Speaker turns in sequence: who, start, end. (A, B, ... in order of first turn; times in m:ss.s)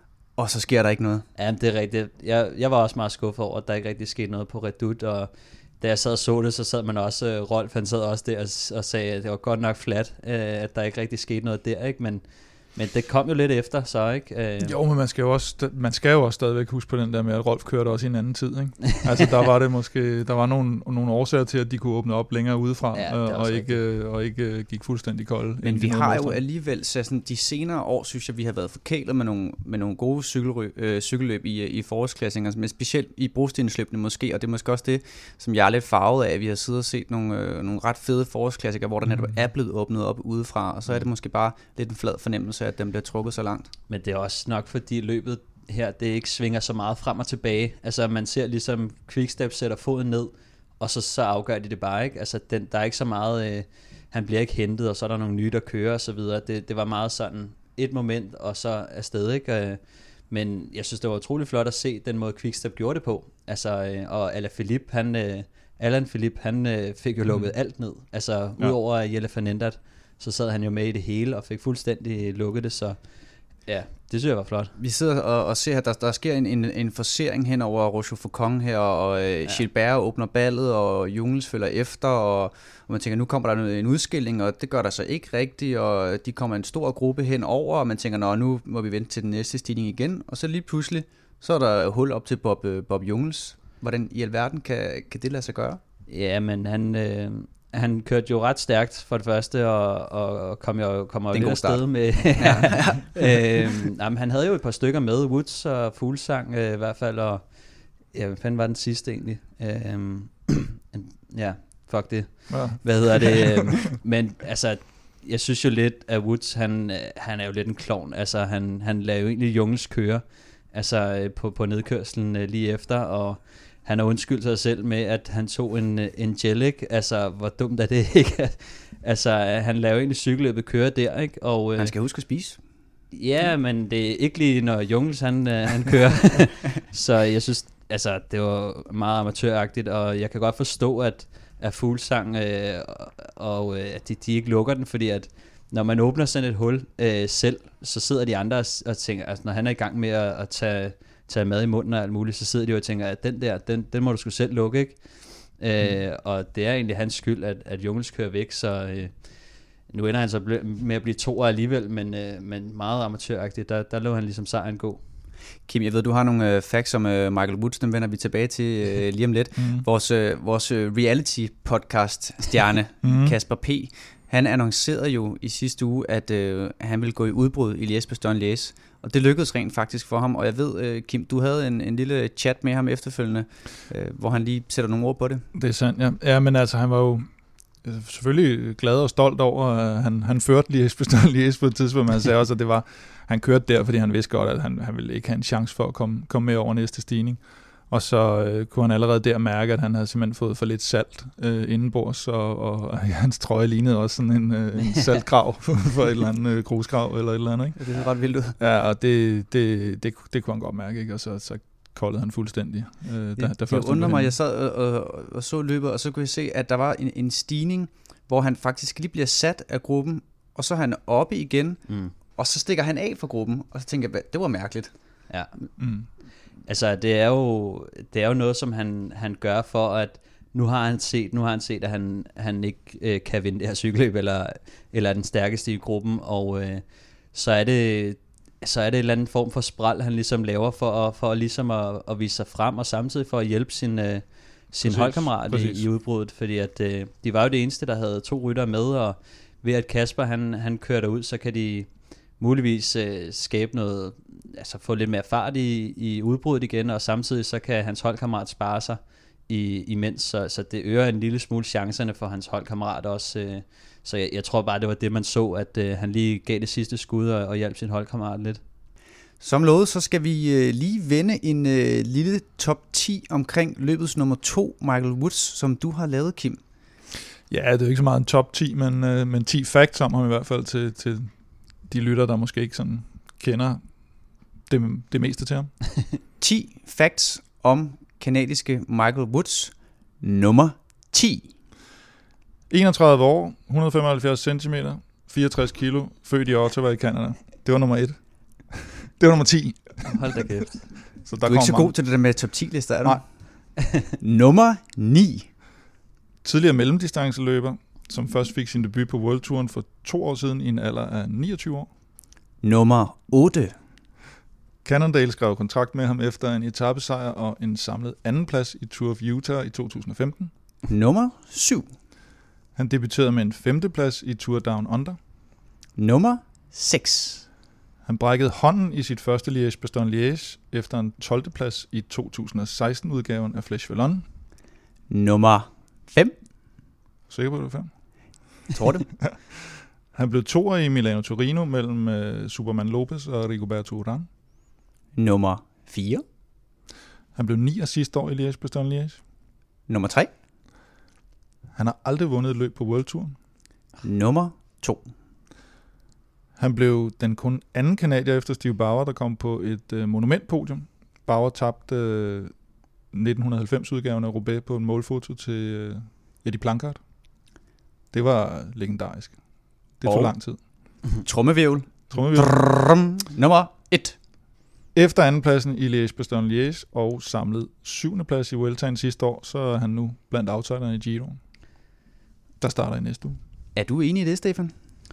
0:00.4-0:01.3 A
0:01.4-0:14.8 B
0:14.6-0:26.4 C
0:22.9-0:23.8 B
0:25.6-0:43.7 A
0:39.0-0:39.3 C
0:43.9-1:14.8 B
1:07.3-1:07.6 C
1:14.8-1:35.8 A
1:36.1-2:12.0 B
1:41.3-1:43.4 A
1:52.5-1:53.5 C
2:11.8-2:12.6 A
2:13.1-2:45.0 B
2:45.7-3:05.5 A
2:49.6-2:49.8 C
2:53.0-2:53.4 C
3:05.5-3:27.8 C
3:27.8-3:28.6 A
3:28.6-3:34.3 C
3:33.4-3:44.9 A
3:41.9-3:42.2 B
3:45.3-4:28.6 B
3:45.8-3:46.1 C
4:04.8-4:05.8 C
4:29.4-4:36.6 A
4:37.5-4:45.8 C
4:46.4-4:51.5 A
4:52.7-5:00.4 C
5:00.0-5:01.0 B
5:01.0-5:02.0 C
5:01.4-5:03.3 A
5:04.2-5:05.5 A
5:06.4-5:11.9 C
5:12.6-5:13.8 A
5:14.8-5:20.5 C
5:20.9-5:21.9 A
5:22.8-5:25.2 C
5:26.0-5:27.5 A
5:28.0-5:34.3 C
5:35.1-5:36.4 A
5:37.3-5:37.9 C
5:38.7-5:39.2 A
5:39.2-5:44.3 C
5:45.2-5:46.2 A
5:47.4-5:49.2 C
5:49.9-5:50.3 A
5:51.8-5:53.4 C
5:54.0-5:55.1 A
5:56.6-6:02.5 C
6:03.1-6:07.0 C
6:08.1-6:09.4 C
6:10.0-6:10.6 C
6:10.0-6:10.3 A
6:11.2-6:14.2 A
6:12.1-6:12.6 C
6:14.9-6:21.4 C
6:22.6-6:23.4 C
6:23.8-6:24.7 A